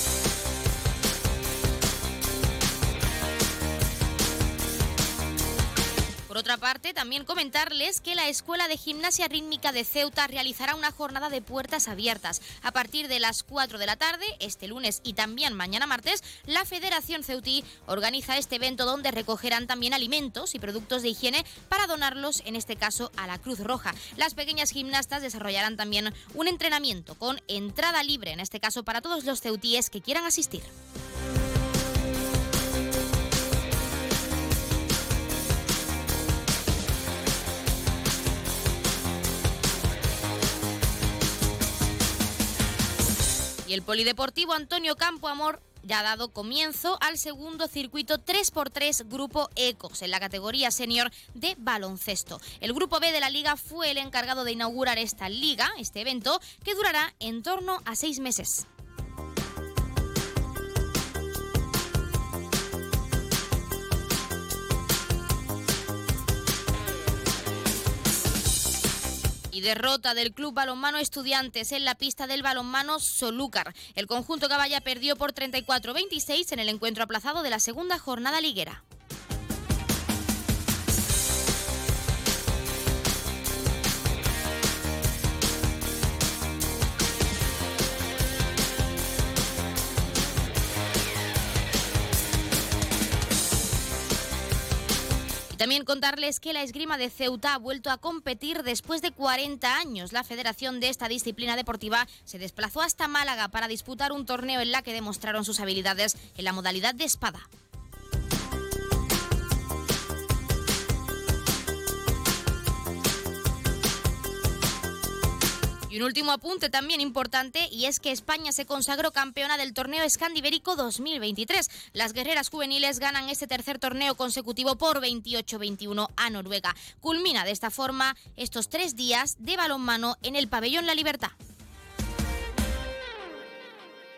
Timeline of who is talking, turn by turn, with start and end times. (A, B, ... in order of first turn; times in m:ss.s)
0:06.3-0:30.7 A
0:43.6-0:58.6 A
1:09.5-1:18.8 A
1:35.5-1:47.5 A
1:55.9-2:11.3 A